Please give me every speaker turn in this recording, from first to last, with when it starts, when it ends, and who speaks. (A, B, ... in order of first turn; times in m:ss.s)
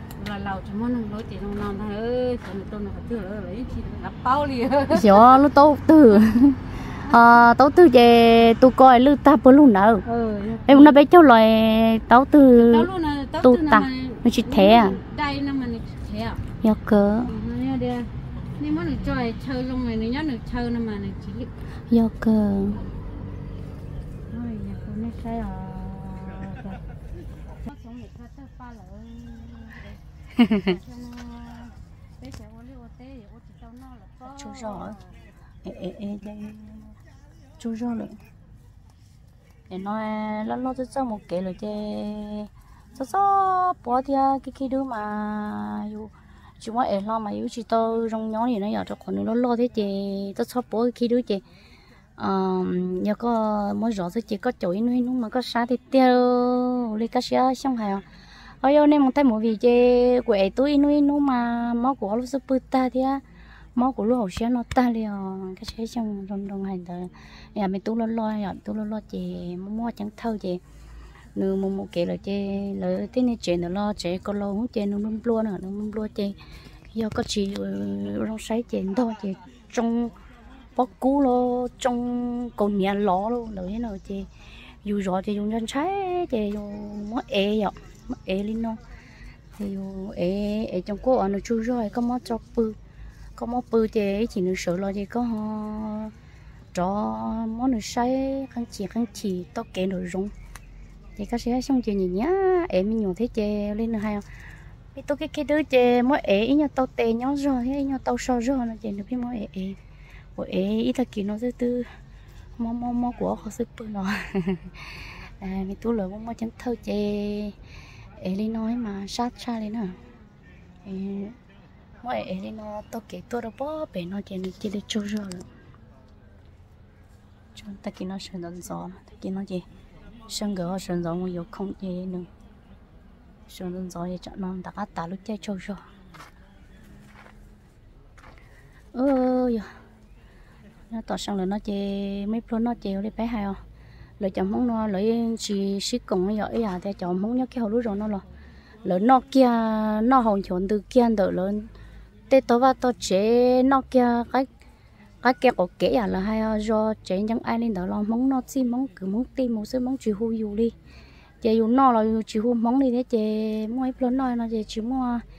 0:00.2-0:05.2 A
0:04.9-0:10.0 B
0:10.0-0:11.0 A
0:10.7-0:12.9 B
0:12.6-0:16.4 A
0:13.4-0:15.0 B
0:16.6-0:17.3 B
0:17.3-0:21.5 A
0:21.9-0:22.9 B
0:24.3-0:26.8 A
0:27.5-0:30.0 A
0:30.5-0:35.1 A
0:34.2-0:35.0 B
0:35.6-0:36.9 B
0:37.6-0:38.2 B
0:39.7-0:51.4 B
0:52.2-0:58.0 B
0:58.6-1:03.2 B
1:03.8-1:10.6 B
1:11.4-1:16.4 B
1:16.9-1:20.1 B
1:20.8-1:24.3 B
1:24.8-1:28.8 B
1:29.6-1:32.8 B
1:33.4-1:36.1 B
1:36.7-1:40.3 B
1:41.2-1:44.2 B
1:44.9-1:49.8 B
1:50.4-1:51.9 B
1:52.6-1:57.6 B
1:58.2-2:00.0 B
2:00.8-2:01.4 B
2:02.0-2:05.5 B
2:07.6-2:09.6 B
2:10.3-2:12.3 B
2:13.5-2:15.8 B
2:18.9-2:19.7 B
2:20.9-2:23.6 B
2:24.2-2:28.2 B
2:28.8-2:31.7 B
2:32.3-2:34.5 B
2:35.2-2:40.7 B
2:41.4-2:45.2 B